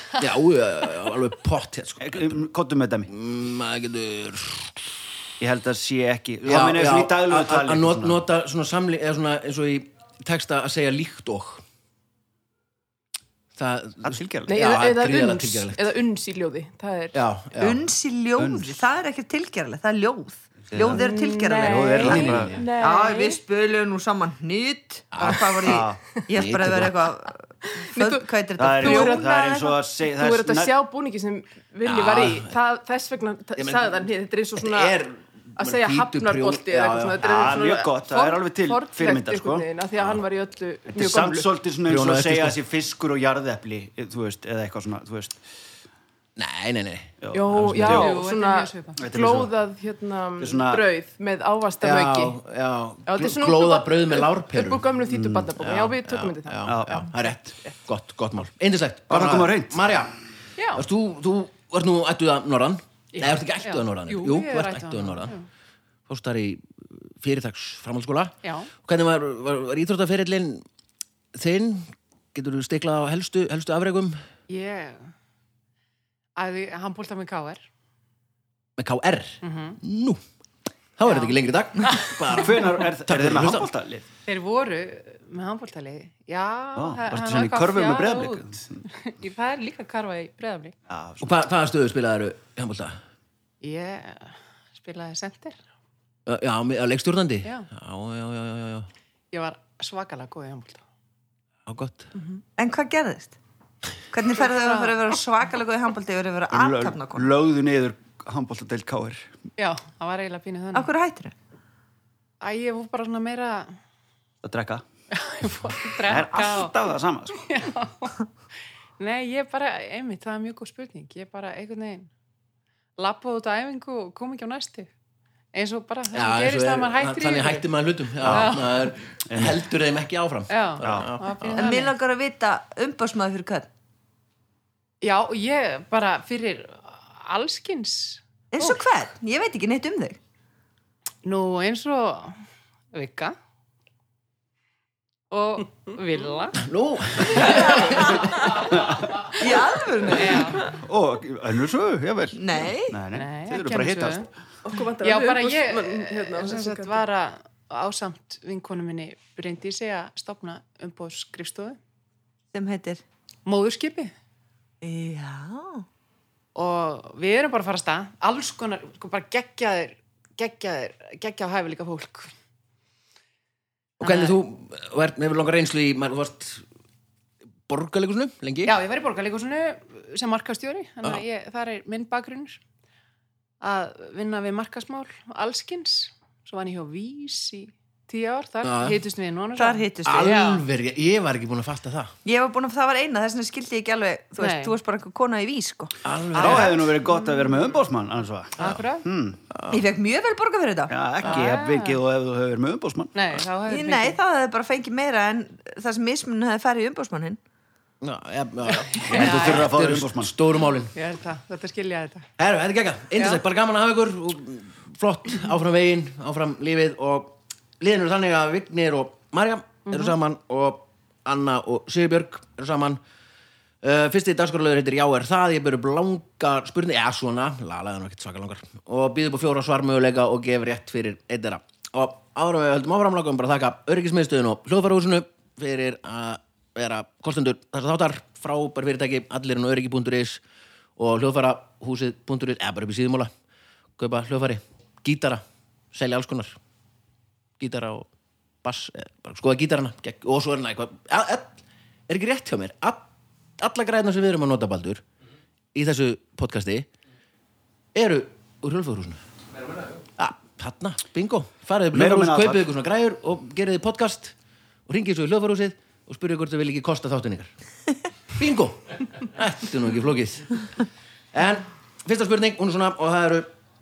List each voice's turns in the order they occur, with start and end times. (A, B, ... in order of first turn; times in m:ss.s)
0:00.2-0:02.4 A
0:02.0-0:03.1 B
0:03.1-0:04.9 A
0:05.4-0:08.2 B
0:06.4-0:11.6 A
0:13.6-0:15.8 A
0:14.0-0:14.5 B
0:14.5-0:17.2 C
0:17.1-0:17.8 A
0:17.6-0:29.8 D
0:18.4-0:18.8 B
0:20.7-0:22.6 B
0:20.8-0:23.4 C
0:22.0-0:22.6 A
0:25.1-0:25.8 A
0:25.6-0:26.0 B
0:26.3-0:27.0 A
0:27.7-0:35.0 C
0:28.6-0:30.7 B
0:31.8-0:32.5 A
0:33.6-0:37.3 A
0:35.6-0:41.5 C
0:37.2-0:39.7 B
0:40.9-0:45.4 B
0:41.8-0:42.6 A
0:46.4-0:48.0 A
0:47.2-0:48.2 B
0:47.3-0:52.4 C
0:47.8-0:49.0 E
0:49.0-0:49.5 B
0:50.4-0:50.9 B
0:51.8-1:00.1 A
0:53.0-0:57.7 C
0:56.6-0:57.1 B
0:59.1-0:59.8 B
1:00.7-1:05.3 A
1:03.1-1:05.4 E
1:06.1-1:10.6 A
1:08.4-1:08.7 E
1:11.3-1:14.2 A
1:14.5-1:15.1 E
1:16.4-1:17.6 E
1:18.8-1:20.2 A
1:19.4-1:19.8 E
1:21.0-1:23.7 A
1:21.0-1:22.1 E
1:22.2-1:24.0 B
1:24.3-1:30.7 E
1:26.7-1:28.8 B
1:30.9-1:31.3 B
1:31.2-1:33.0 A
1:33.6-1:35.6 E
1:36.3-1:38.9 A
1:39.3-1:40.8 E
1:41.6-1:42.1 A
1:42.6-1:43.4 D
1:44.1-1:47.3 D
1:44.5-1:45.0 E
1:46.5-1:49.3 B
1:49.6-1:50.9 E
1:50.7-1:51.3 D
1:52.4-1:53.8 E
1:54.4-1:54.8 B
1:55.1-1:56.7 E
1:56.0-1:57.5 B
1:57.4-1:58.2 E
1:59.0-2:02.1 E
2:03.0-2:04.9 E
2:05.5-2:07.6 E
2:06.1-2:11.6 A
2:08.2-2:08.9 E
2:09.3-2:09.6 B
2:10.5-2:11.9 E
2:10.8-2:11.1 B
2:11.5-2:13.7 D
2:15.0-2:18.8 E
2:18.5-2:20.2 D
2:21.2-2:22.4 E
2:22.9-2:23.4 E
2:25.3-2:26.6 E
2:26.6-2:28.1 A
2:27.3-2:28.0 E
2:27.4-2:28.6 D
2:28.6-2:29.4 B
2:29.3-2:30.6 D
2:30.1-2:30.7 E
2:30.7-2:34.3 B
2:32.3-2:33.0 D
2:33.1-2:34.3 E
2:34.6-2:37.0 C
2:34.9-2:41.8 E
2:42.5-2:43.0 D
2:43.4-2:44.1 E
2:44.8-2:45.8 D
2:46.5-2:52.3 E
2:54.0-2:56.6 A
2:54.0-2:54.4 E
2:57.7-2:58.7 A
2:58.6-3:02.6 E
3:03.6-3:10.6 E
3:08.6-3:09.0 A
3:09.6-3:10.3 D
3:10.0-3:12.1 A
3:12.2-3:15.9 D
3:14.4-3:14.7 E
3:16.0-3:16.8 A
3:16.3-3:19.4 B
3:16.4-3:17.7 E
3:18.6-3:19.0 E
3:19.5-3:19.8 A
3:19.7-3:20.9 D
3:20.9-3:23.1 B
3:21.2-3:22.0 E
3:23.1-3:24.2 E
3:23.7-3:27.4 D
3:28.0-3:30.9 A
3:28.7-3:29.7 E
3:29.0-3:30.3 B
3:30.9-3:32.3 E
3:32.4-3:43.0 A
3:43.8-4:00.4 A
4:01.0-4:03.3 A
4:04.0-4:06.6 A
4:07.6-4:08.1 A
4:08.6-4:15.0 A
4:15.7-4:16.9 A
4:17.9-4:19.2 A
4:20.2-4:24.3 A
4:21.9-4:22.7 B
4:24.9-4:27.5 A
4:28.4-4:30.6 A
4:31.3-4:33.5 A